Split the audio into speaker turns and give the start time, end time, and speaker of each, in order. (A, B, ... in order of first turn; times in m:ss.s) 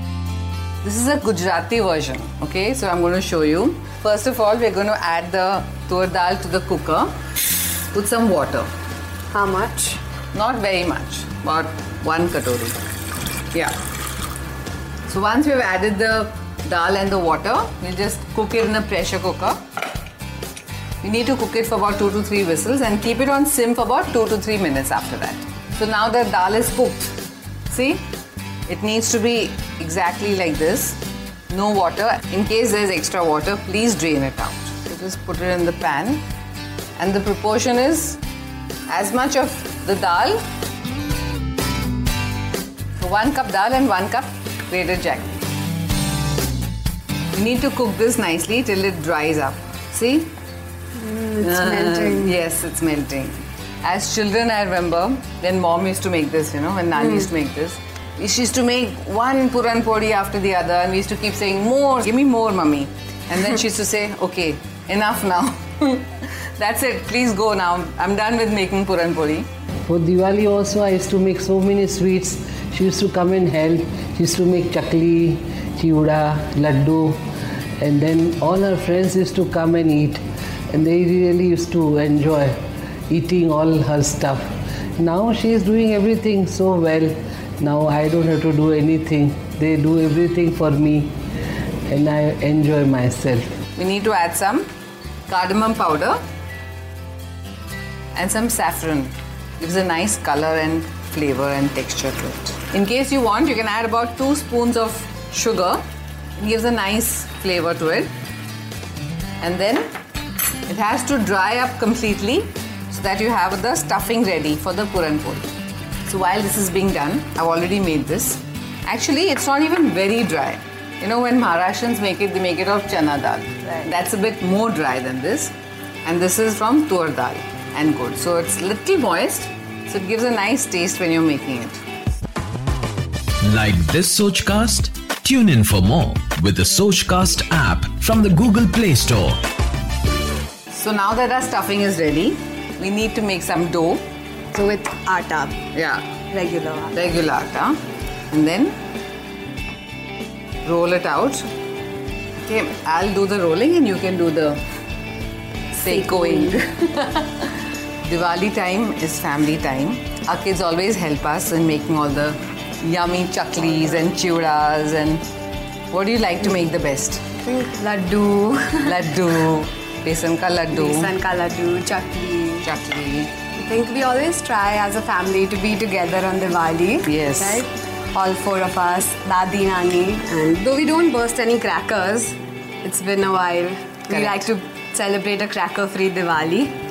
0:00.8-0:07.2 A
0:07.9-0:08.7 A
0:09.3-0:10.0 B
0:10.3-0:12.8 A
0:15.1-0:19.6 A
0:21.0-0:27.1 A
0:27.7-0:28.0 A
0:28.7-0:31.0 A
0:31.5-0:36.2 A
0:37.0-0:38.2 A
0:38.9-0:40.4 A
0:43.0-0:45.5 A
0:47.3-0:50.3 A
0:51.0-0:52.3 B
0:51.4-1:09.5 A
1:09.9-1:17.2 C
1:17.8-1:22.6 C
1:23.1-1:31.1 C
1:31.9-1:33.6 C
1:33.8-1:34.7 A
1:35.3-1:36.2 A
1:38.2-1:45.8 A
1:46.4-1:48.1 A
1:49.4-1:49.9 A
1:50.7-1:55.6 A
1:56.1-2:05.5 A
2:06.0-2:11.8 A
2:13.4-2:19.4 D
2:20.7-2:24.0 A
2:24.5-2:25.6 B
2:25.7-2:26.1 A
2:26.3-2:27.0 B
2:26.9-2:27.8 A
2:28.3-2:28.8 A
2:30.6-2:31.5 A
2:32.4-2:34.6 A
2:35.7-2:37.5 A
2:35.9-2:36.6 B
2:38.0-2:45.2 A
2:45.9-2:47.3 A
2:47.4-2:48.9 B
2:48.8-2:51.1 A
2:50.7-2:52.7 B
2:52.6-2:53.3 A
2:53.6-3:06.7 B
2:57.0-2:57.6 A
3:04.1-3:04.5 A